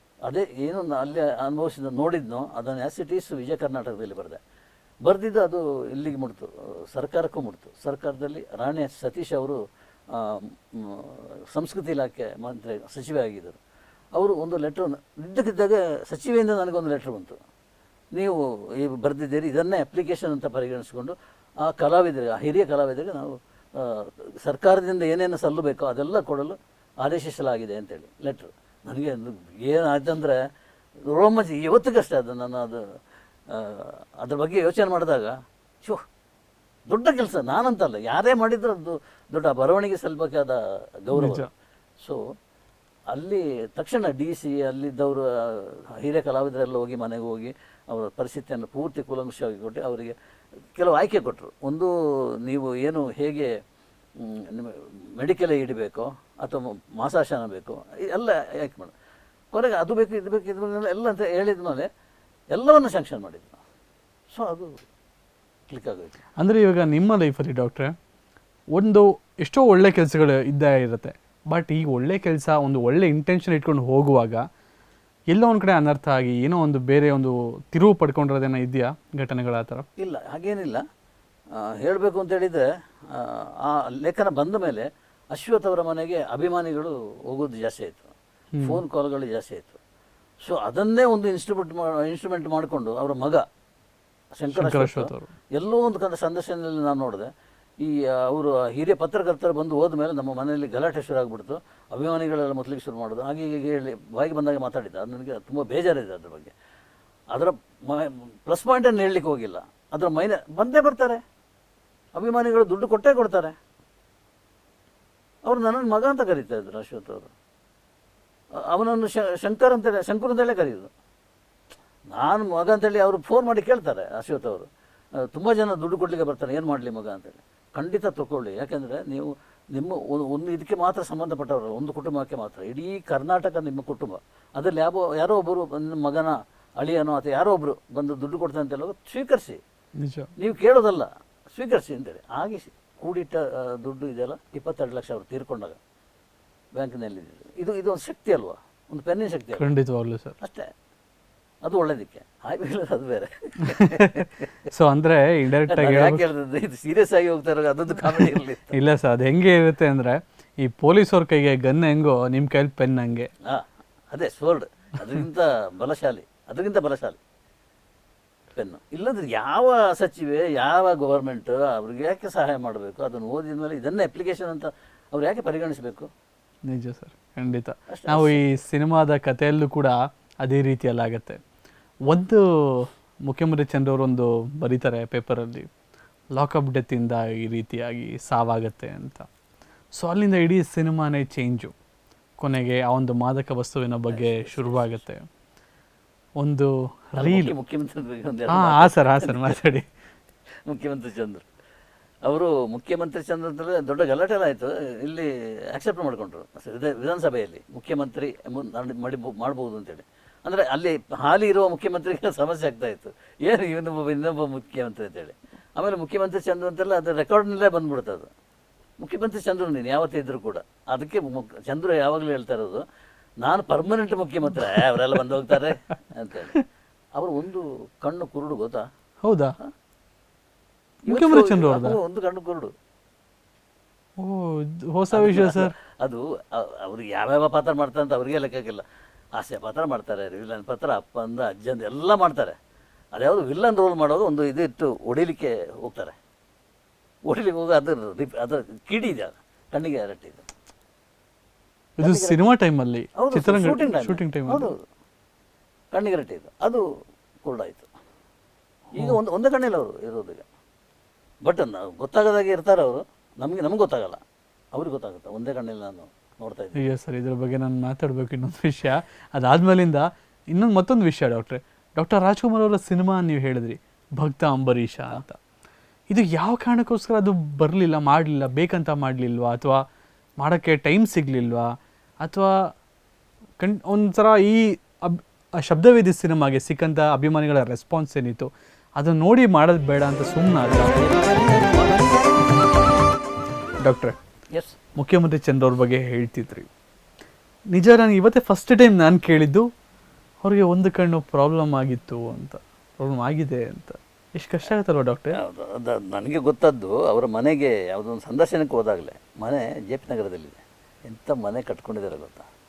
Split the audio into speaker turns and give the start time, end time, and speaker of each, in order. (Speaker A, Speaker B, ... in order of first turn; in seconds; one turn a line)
Speaker A: 0.2-4.4
Speaker A: 5.0-9.6
Speaker A: 10.1-13.6
Speaker A: 14.1-17.4
Speaker A: 18.1-30.4
Speaker A: 31.1-32.9
Speaker A: 33.5-36.0
Speaker A: 36.9-41.5
Speaker B: 41.1-41.5
Speaker A: 43.1-50.1
Speaker A: 50.8-53.5
Speaker A: 54.2-58.9
Speaker A: 59.5-61.9
Speaker A: 62.5-63.6
Speaker A: 64.3-64.8
Speaker A: 65.7-66.2
Speaker B: 66.4-67.9
Speaker B: 68.7-74.4
Speaker B: 75.3-79.8
Speaker A: 80.0-80.8
Speaker A: 81.5-89.8
Speaker B: 88.5-88.8
Speaker A: 90.4-93.4
Speaker A: 94.3-106.5
Speaker B: 94.5-95.3
Speaker A: 107.3-111.2
Speaker A: 112.1-113.5
Speaker A: 115.4-117.3
Speaker A: 118.7-120.9
Speaker A: 122.1-124.7
Speaker A: 125.2-139.6
Speaker B: 140.0-140.3
Speaker A: 140.4-145.8
Speaker A: 146.7-149.7
Speaker B: 149.6-150.3
Speaker A: 150.4-150.7
Speaker A: 151.6-154.5
Speaker B: 153.7-156.2
Speaker A: 155.7-158.8
Speaker B: 158.0-163.3
Speaker A: 163.4-167.2
Speaker A: 168.5-176.1
Speaker B: 176.7-181.4
Speaker A: 177.9-178.6
Speaker B: 182.1-185.7
Speaker B: 186.3-189.3
Speaker B: 189.9-191.7
Speaker B: 192.4-195.2
Speaker A: 194.1-195.0
Speaker B: 196.4-197.5
Speaker A: 197.2-199.6
Speaker B: 198.5-199.9
Speaker A: 200.7-201.4
Speaker A: 202.2-218.3
Speaker A: 219.0-222.8
Speaker A: 223.4-226.6
Speaker A: 227.2-228.8
Speaker B: 229.2-229.6
Speaker B: 231.1-232.0
Speaker A: 231.1-232.7
Speaker B: 234.2-235.7
Speaker A: 235.1-238.8
Speaker A: 239.3-242.6
Speaker A: 243.1-246.1
Speaker A: 247.3-250.4
Speaker A: 252.0-252.4
Speaker B: 252.0-254.7
Speaker A: 253.2-254.8
Speaker A: 255.9-256.8
Speaker A: 257.4-257.9
Speaker A: 258.9-260.4
Speaker A: 261.4-264.2
Speaker A: 264.7-266.8
Speaker B: 266.8-275.4
Speaker B: 276.1-279.8
Speaker B: 280.4-282.6
Speaker B: 283.6-290.9
Speaker A: 290.8-292.7
Speaker B: 293.8-294.1
Speaker B: 294.9-296.7
Speaker B: 297.7-299.6
Speaker B: 300.4-305.4
Speaker A: 305.3-312.5